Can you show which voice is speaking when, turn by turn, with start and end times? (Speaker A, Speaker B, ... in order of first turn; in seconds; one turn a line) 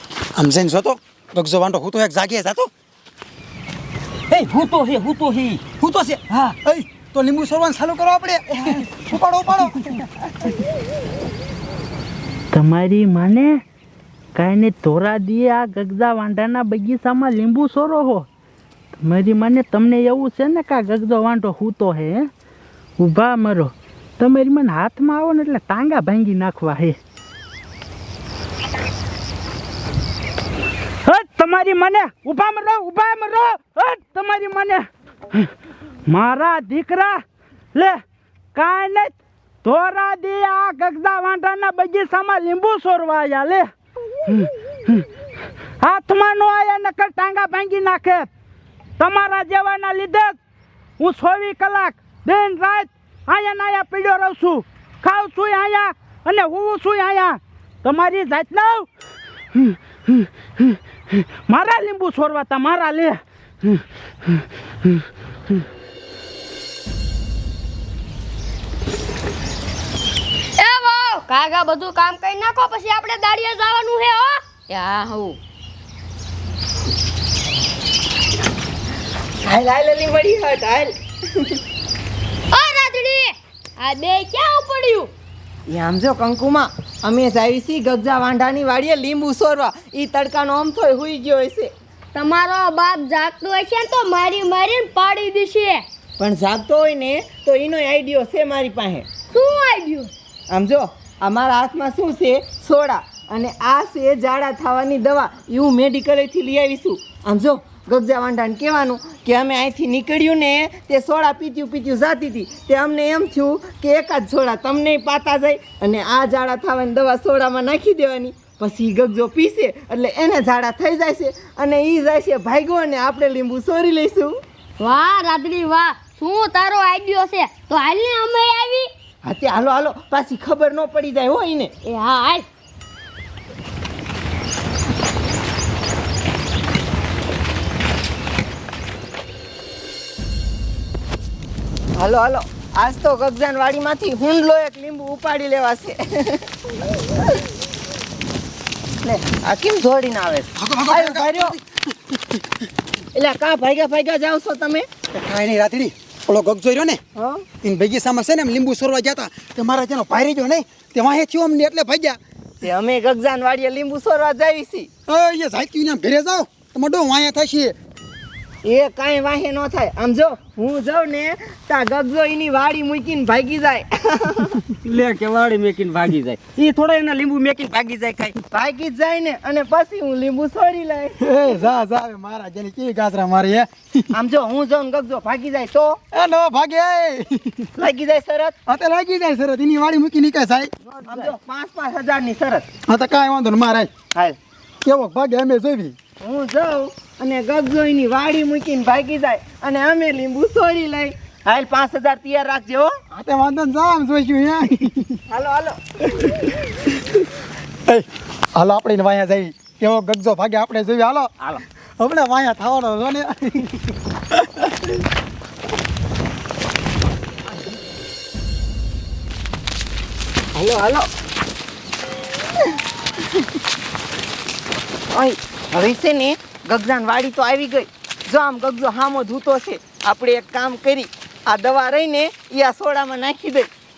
Speaker A: 0.3-2.7
Speaker B: 4.3-5.8
Speaker A: 5.8-10.1
Speaker C: 12.5-13.6
Speaker C: 14.3-18.3
Speaker C: 19.0-22.3
Speaker C: 23.0-27.0
Speaker C: 31.1-35.5
Speaker C: 36.1-37.2
Speaker C: 37.8-38.0
Speaker C: 38.5-43.7
Speaker C: 44.3-45.0
Speaker C: 45.8-48.3
Speaker C: 49.0-50.4
Speaker C: 51.0-58.9
Speaker C: 59.5-65.5
Speaker D: 70.6-75.4
Speaker E: 79.4-81.5
Speaker D: 82.5-85.1
Speaker E: 85.7-91.7
Speaker D: 92.2-95.8
Speaker E: 96.2-99.1
Speaker D: 99.3-100.1
Speaker E: 100.5-124.4
Speaker D: 124.8-128.9
Speaker E: 129.2-131.7
Speaker D: 131.8-132.5
Speaker E: 142.0-146.5
Speaker E: 149.0-151.6
Speaker A: 150.6-151.6
Speaker A: 152.1-152.4
Speaker E: 153.1-154.8
Speaker A: 155.1-157.0
Speaker E: 157.2-157.4
Speaker A: 157.6-162.2
Speaker E: 162.6-164.9
Speaker A: 165.1-167.8
Speaker E: 168.7-174.6
Speaker B: 174.9-177.8
Speaker E: 178.3-181.2
Speaker A: 181.2-184.1
Speaker E: 184.1-186.0
Speaker A: 186.1-187.7
Speaker E: 187.8-188.6
Speaker A: 188.7-191.2
Speaker E: 191.0-192.7
Speaker A: 192.9-193.9
Speaker A: 194.8-196.0
Speaker E: 196.2-203.0
Speaker A: 203.1-205.2
Speaker E: 205.3-205.8
Speaker A: 207.9-211.3
Speaker A: 212.0-213.7
Speaker A: 214.4-214.9
Speaker E: 220.5-221.1
Speaker E: 225.1-233.7